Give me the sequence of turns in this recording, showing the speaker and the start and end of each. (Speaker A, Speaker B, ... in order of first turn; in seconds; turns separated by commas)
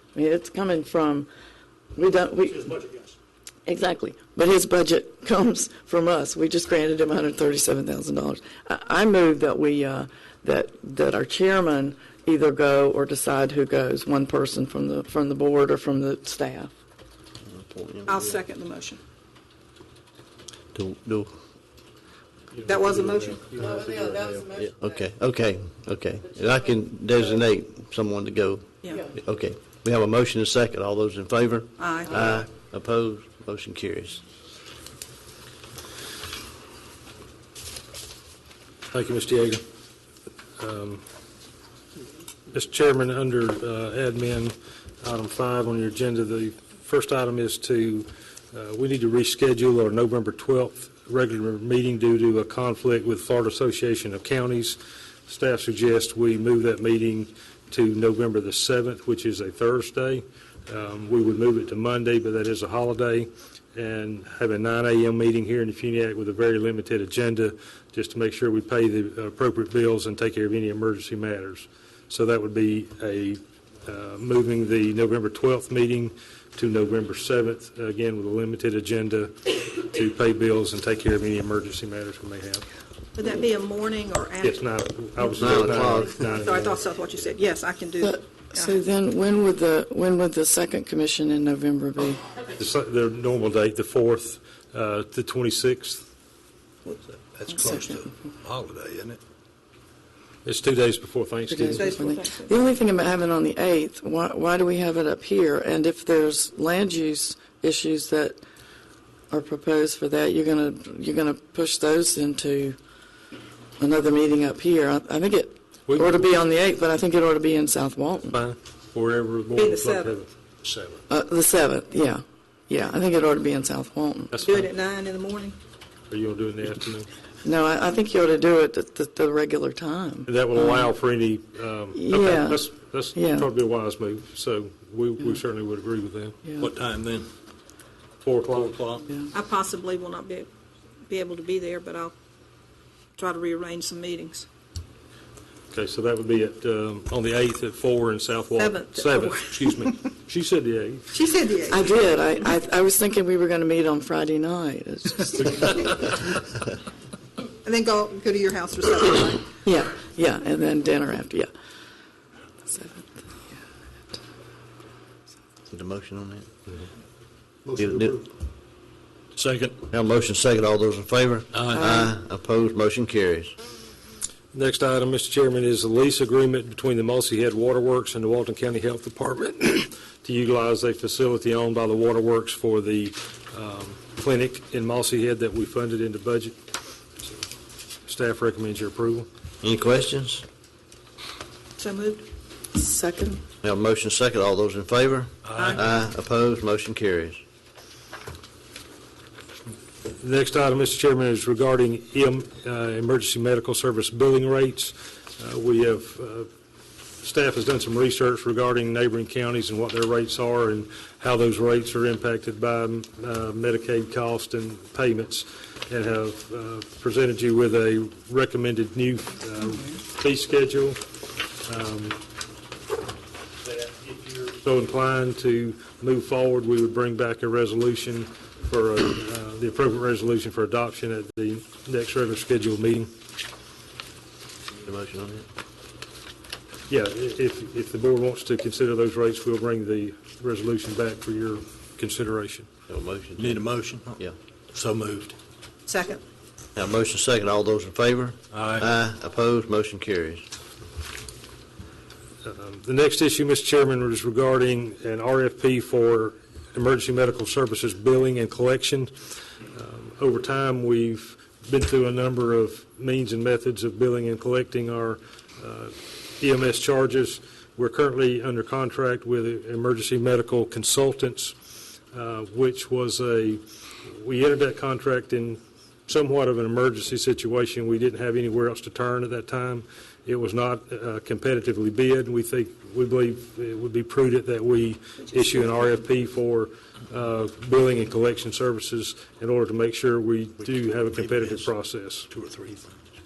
Speaker A: 0.1-1.3, Speaker A: 1.9-2.8, Speaker A: 3.6-16.7, Speaker B: 17.4-18.3, Speaker C: 18.1-19.0, Speaker B: 20.7-21.3, Speaker D: 22.5-24.3, Speaker C: 22.6-23.4, Speaker A: 23.6-25.0, Speaker B: 24.5-34.2, Speaker C: 28.8-29.1, Speaker C: 31.8-32.2, Speaker D: 38.9-39.6, Speaker D: 40.6-41.0, Speaker D: 42.5-82.7, Speaker C: 83.1-84.6, Speaker D: 84.4-86.8, Speaker B: 85.4-86.2, Speaker C: 86.4-88.8, Speaker A: 88.0-92.2, Speaker D: 92.6-96.0, Speaker E: 96.9-99.2, Speaker A: 97.6-98.0, Speaker D: 100.4-101.9, Speaker A: 101.5-108.4, Speaker C: 101.7-102.6, Speaker A: 109.3-112.8, Speaker A: 113.8-118.4, Speaker D: 115.9-116.2, Speaker D: 118.3-121.0, Speaker C: 119.5-120.2, Speaker A: 121.1-124.3, Speaker D: 124.3-124.7, Speaker C: 124.4-125.6, Speaker D: 126.1-127.1, Speaker A: 127.4-130.9, Speaker D: 130.3-136.5, Speaker A: 131.9-133.5, Speaker E: 136.6-137.3, Speaker D: 138.2-138.8, Speaker E: 138.5-139.0, Speaker C: 139.3-140.5, Speaker C: 141.0-142.1, Speaker C: 143.2-144.5, Speaker D: 145.7-151.1, Speaker C: 148.5-149.7, Speaker C: 151.1-151.9, Speaker A: 151.7-156.1, Speaker C: 157.6-159.6, Speaker A: 159.6-161.5, Speaker A: 162.7-163.4, Speaker B: 165.7-166.5, Speaker E: 167.7-168.1, Speaker B: 167.8-168.2, Speaker E: 169.3-169.8, Speaker B: 169.9-173.5, Speaker E: 171.5-171.8, Speaker A: 171.8-172.1, Speaker D: 174.5-186.6, Speaker D: 188.1-189.3, Speaker B: 189.6-190.4, Speaker C: 191.8-192.2, Speaker A: 192.7-193.4, Speaker B: 193.6-197.4, Speaker C: 195.6-195.8, Speaker D: 200.2-206.5, Speaker D: 207.2-221.0, Speaker D: 221.6-222.2, Speaker D: 224.4-233.1, Speaker B: 234.8-235.5, Speaker D: 236.9-242.7, Speaker B: 242.9-243.6, Speaker E: 243.4-244.2, Speaker E: 244.7-245.3, Speaker C: 245.9-246.2, Speaker B: 246.8-250.4, Speaker E: 248.5-248.8, Speaker D: 252.4-292.3, Speaker E: 290.9-291.7, Speaker E: 292.3-292.9